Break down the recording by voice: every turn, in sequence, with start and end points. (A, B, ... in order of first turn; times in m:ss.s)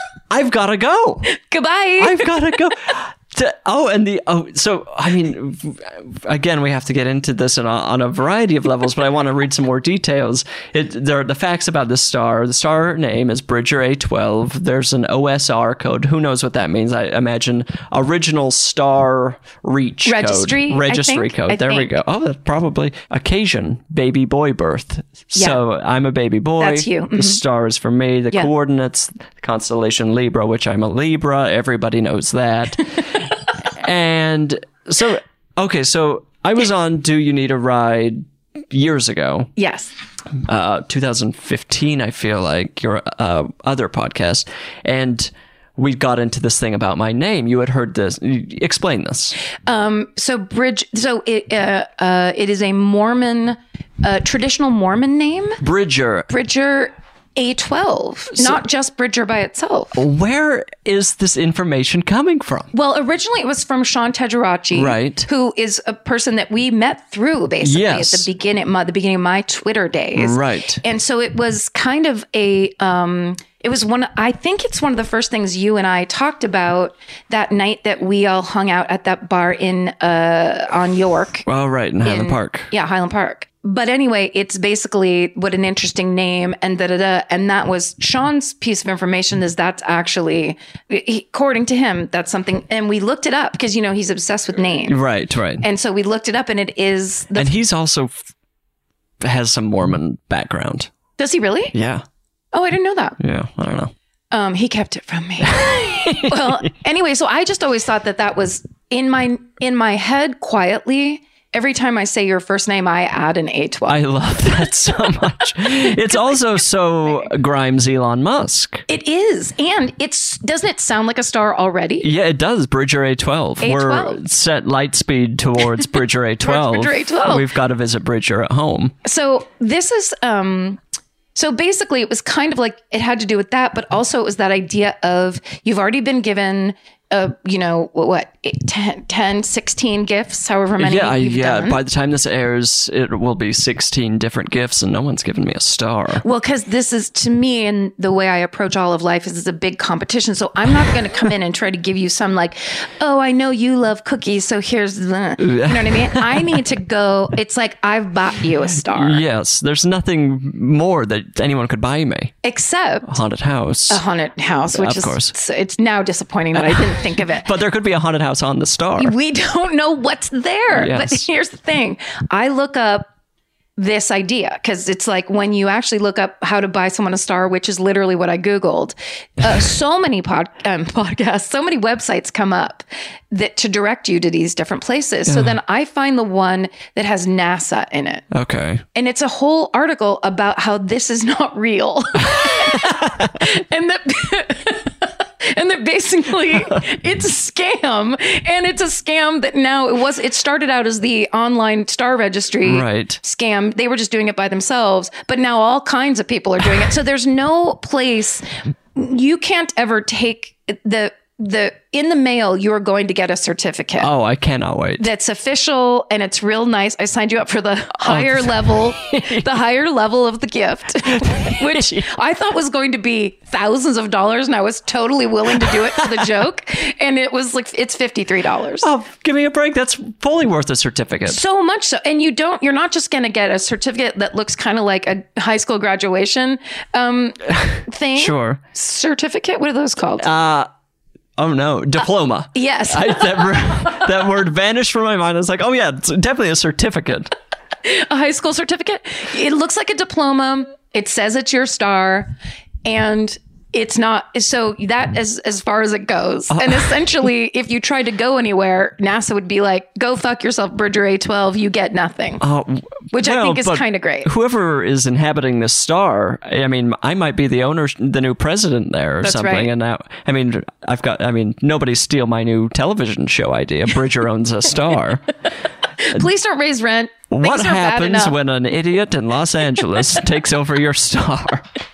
0:00.3-0:01.3 A
0:01.3-0:02.4 B
0:02.0-0:39.5 A
0:20.1-0:21.9 B
0:25.4-0:25.6 B
0:26.6-0:27.4 B
0:39.6-0:39.9 B
0:40.4-0:49.4 A
0:49.6-0:55.6 B
0:55.6-0:56.3 A
0:56.3-1:00.0 B
0:59.9-1:02.7 A
1:02.7-1:21.5 B
1:04.7-1:05.3 A
1:07.6-1:08.3 A
1:10.2-1:10.8 A
1:21.4-1:22.7 A
1:22.0-1:35.0 B
1:34.9-1:35.6 A
1:35.6-1:37.5 B
1:37.4-1:38.2 A
1:39.2-1:40.9 A
1:41.2-1:41.7 B
1:41.7-1:42.0 A
1:42.5-1:43.2 B
1:43.2-1:43.9 A
1:44.3-1:54.0 B
1:45.5-1:46.6 A
1:53.9-1:58.8 A
1:58.9-2:02.1 B
2:02.0-2:09.0 A
2:03.6-2:04.2 B
2:06.4-2:07.5 B
2:09.0-2:10.8 B
2:11.4-2:21.8 B
2:20.8-2:26.2 A
2:26.2-2:39.2 B
2:35.4-2:36.6 A
2:38.8-2:42.3 A
2:42.4-2:43.1 B
2:43.1-2:44.0 A
2:43.9-2:47.5 B
2:44.7-2:45.3 A
2:46.6-2:49.1 A
2:49.0-2:53.1 B
2:50.7-2:51.2 A
2:53.8-3:08.3 B
3:05.3-3:05.5 A
3:08.3-3:08.8 A
3:08.9-3:34.1 B
3:12.6-3:13.3 A
3:22.6-3:23.2 A
3:34.0-3:35.1 A
3:35.0-3:48.9 B
3:38.0-3:39.5 A
3:41.2-3:42.1 A
3:45.6-3:46.3 A
3:48.8-3:51.4 A
3:51.3-4:00.3 B
3:58.1-3:58.6 A
4:00.2-4:00.7 A
4:01.4-4:07.3 A
4:02.5-4:04.0 B
4:07.8-4:12.3 B
4:12.8-4:22.4 B
4:16.5-4:16.9 A
4:22.4-4:35.2 A
4:23.1-4:24.3 B
4:29.2-4:29.7 B
4:36.0-4:38.4 B
4:37.3-4:41.7 A